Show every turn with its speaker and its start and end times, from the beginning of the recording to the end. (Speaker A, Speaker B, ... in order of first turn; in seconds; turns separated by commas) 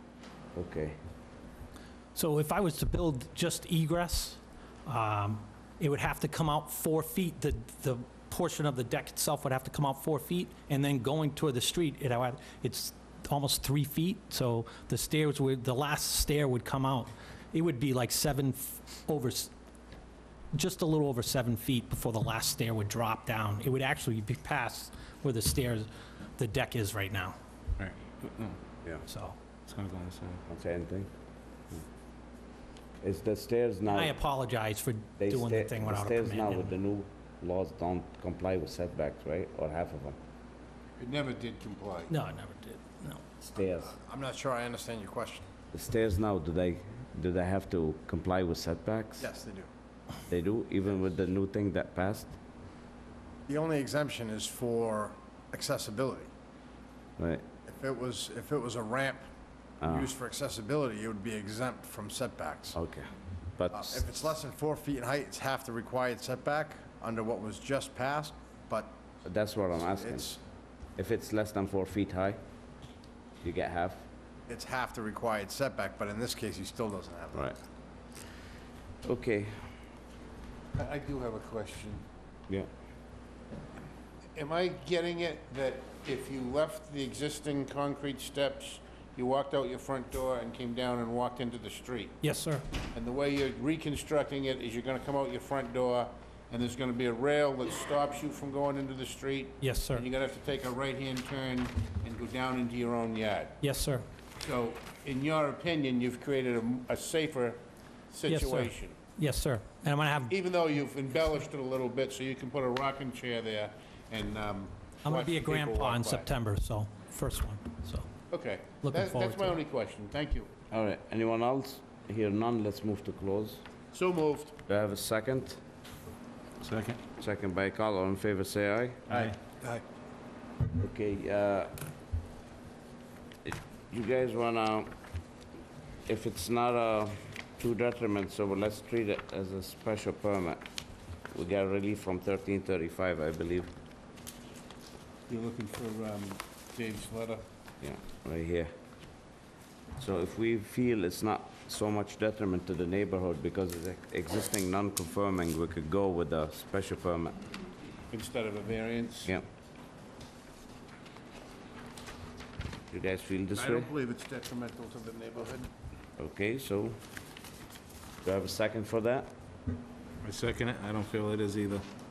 Speaker A: 0.6-1.0, Speaker B: 2.1-19.5, Speaker B: 20.5-27.4, Speaker C: 27.8-28.6, Speaker B: 29.1-29.4, Speaker C: 29.6-30.4, Speaker A: 30.5-31.1, Speaker A: 33.0-34.1, Speaker B: 33.9-36.7, Speaker A: 35.2-40.2, Speaker D: 41.0-42.1, Speaker B: 42.1-43.2, Speaker A: 43.5-43.9, Speaker E: 43.6-45.5, Speaker A: 45.7-49.3, Speaker E: 49.2-49.7, Speaker A: 50.3-52.4, Speaker E: 53.5-56.3, Speaker A: 57.2-57.5, Speaker E: 57.7-59.3, Speaker E: 59.8-62.8, Speaker A: 59.8-60.1, Speaker A: 62.7-64.0, Speaker E: 63.7-69.0, Speaker A: 69.2-70.3, Speaker E: 69.9-70.4, Speaker A: 71.0-72.4, Speaker A: 73.4-74.1, Speaker E: 74.5-77.5, Speaker A: 79.0-79.5, Speaker D: 80.8-82.0, Speaker D: 84.3-92.2, Speaker B: 92.2-92.7, Speaker D: 92.9-103.6, Speaker B: 99.6-100.0, Speaker B: 103.6-104.1, Speaker D: 104.4-109.0, Speaker B: 108.3-110.3, Speaker D: 110.3-116.3, Speaker B: 115.0-118.1, Speaker D: 118.3-120.5, Speaker B: 118.8-119.6, Speaker A: 120.7-123.6, Speaker D: 123.9-124.6, Speaker A: 124.7-125.6, Speaker C: 126.6-127.0, Speaker A: 127.2-129.1, Speaker D: 129.1-129.8, Speaker A: 130.8-131.7, Speaker A: 133.4-134.9, Speaker A: 136.1-140.6, Speaker A: 141.3-143.7, Speaker D: 145.3-147.4, Speaker A: 147.8-148.7, Speaker A: 150.0-157.4, Speaker D: 158.1-159.3, Speaker A: 162.9-163.9, Speaker D: 163.6-165.7, Speaker A: 166.2-167.0, Speaker A: 168.2-169.3, Speaker C: 170.2-171.9